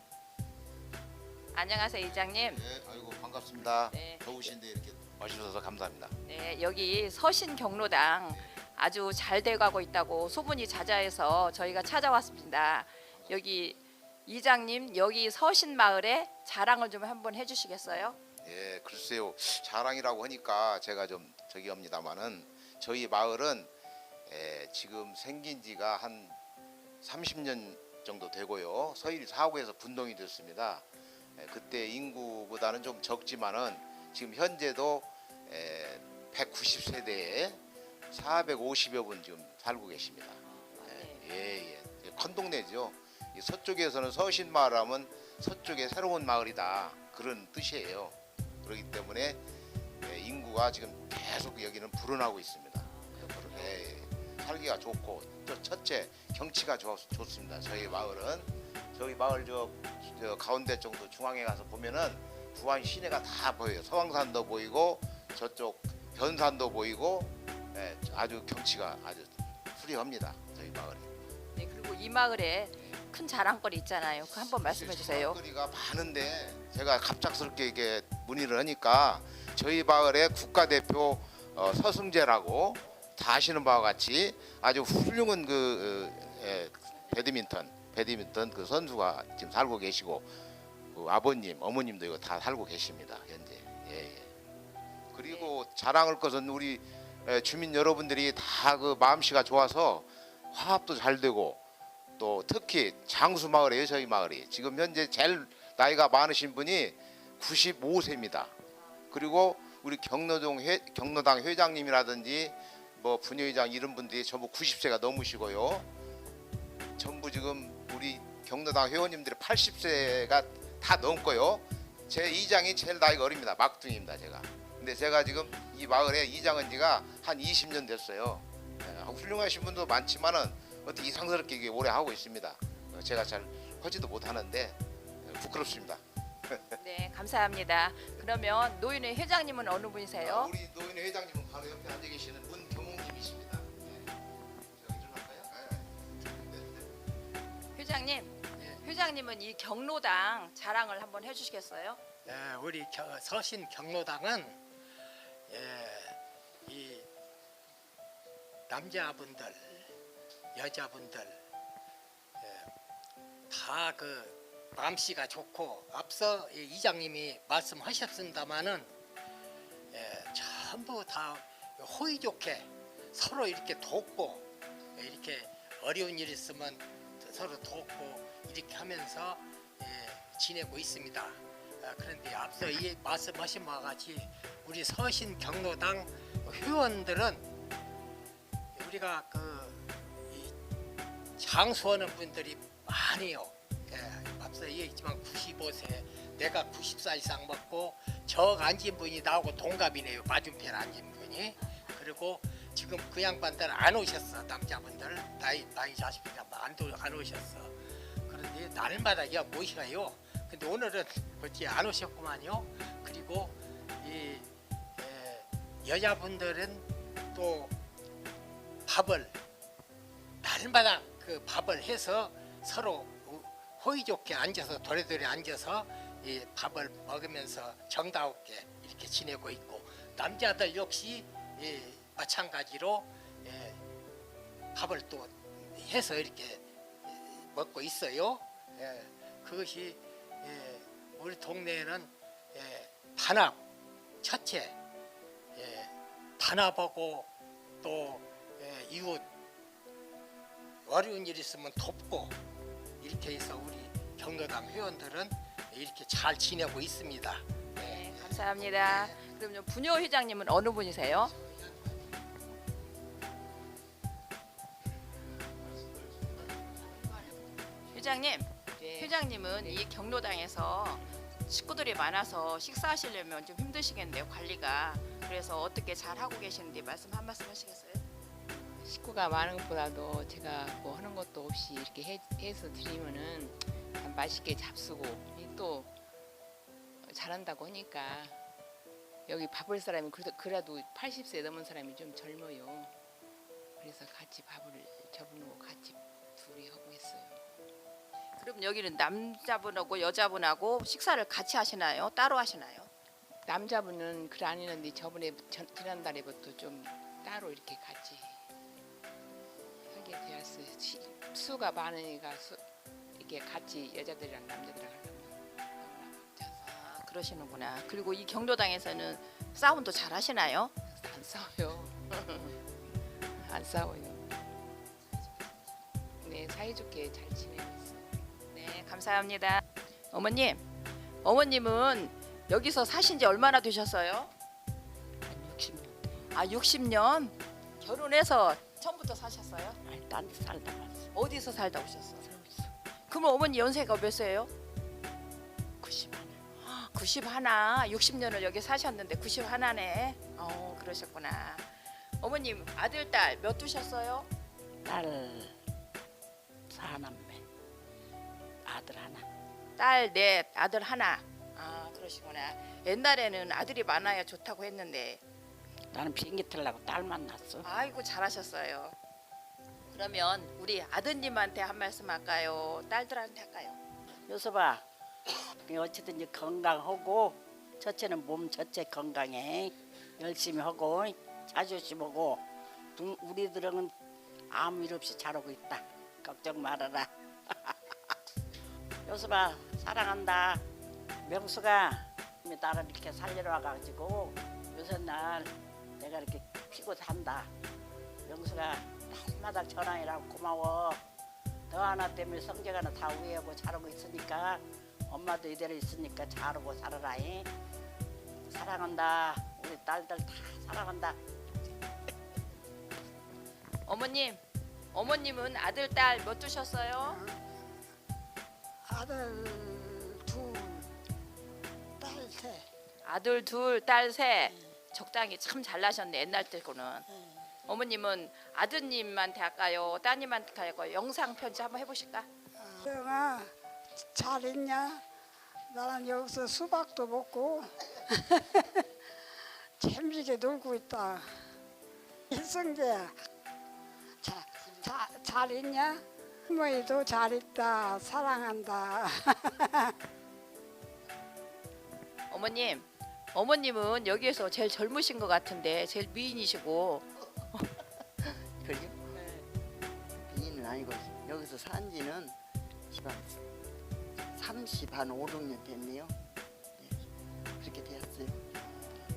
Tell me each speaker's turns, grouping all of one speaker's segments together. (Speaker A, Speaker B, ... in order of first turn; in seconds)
Speaker A: 1.5-2.6, 3.9-4.3, 6.2-18.2, 40.5-41.3, 52.8-53.8, 71.5-75.4, 95.3-95.5, 136.8-140.5, 147.8-152.0, 257.8-261.3, 267.9-278.0, 298.4-302.9, 316.6-320.7, 328.5-330.6, 331.2-334.3, 336.3-339.8, 341.1-342.2, 343.1-344.5, 346.6-351.7, 352.2-354.3, 359.8-365.2, 367.6-368.9, 369.9-373.8, 413.9-414.4, 414.9-417.2, 423.1-427.1, 427.7-432.3, 452.3-457.1
Speaker B: 2.2-6.1, 13.1-13.4, 18.4-23.7, 24.3-26.4, 27.0-30.9, 31.4-49.4, 50.0-71.1, 74.4-90.3, 90.9-94.3, 95.1-101.6, 102.2-108.5, 109.1-115.9, 117.0-136.6, 140.2-144.1, 144.7-146.9, 265.8-266.3
Speaker C: 152.3-154.6, 155.5-157.1, 158.7-159.9, 160.6-161.4, 162.4-162.7, 163.5-168.9, 169.9-174.5, 175.0-187.4, 188.8-190.5, 191.4-207.7, 208.3-217.8, 218.9-219.3, 220.4-233.8, 234.7-243.6, 244.2-244.8, 245.6-247.3, 247.8-249.3, 250.9-252.4, 253.0-259.2
Speaker D: 268.8-269.8, 278.5-285.9, 287.0-288.4, 289.3-292.9, 293.8-297.4, 303.5-308.4, 309.9-312.6, 313.2-316.6, 320.9-322.6, 323.4-324.2, 326.2-328.1
Speaker E: 335.3-336.0, 339.9-341.1, 342.2-342.7, 345.8-346.4, 354.9-355.5, 356.7-357.4, 358.7-359.2, 365.9-367.7, 374.3-374.8, 375.6-382.4, 383.0-383.9, 384.5-387.1, 389.1-390.6, 391.2-397.5, 398.3-401.0, 401.7-407.5, 408.5-411.2
Speaker F: 417.1-417.4, 418.9-420.9, 422.0-422.7, 432.6-433.5, 434.1-435.0, 435.7-438.8, 439.8-441.4, 442.3-443.2, 444.2-449.9
Speaker G: 458.6-459.4, 460.2-462.4, 462.9-463.4, 464.4-466.2, 466.8-468.5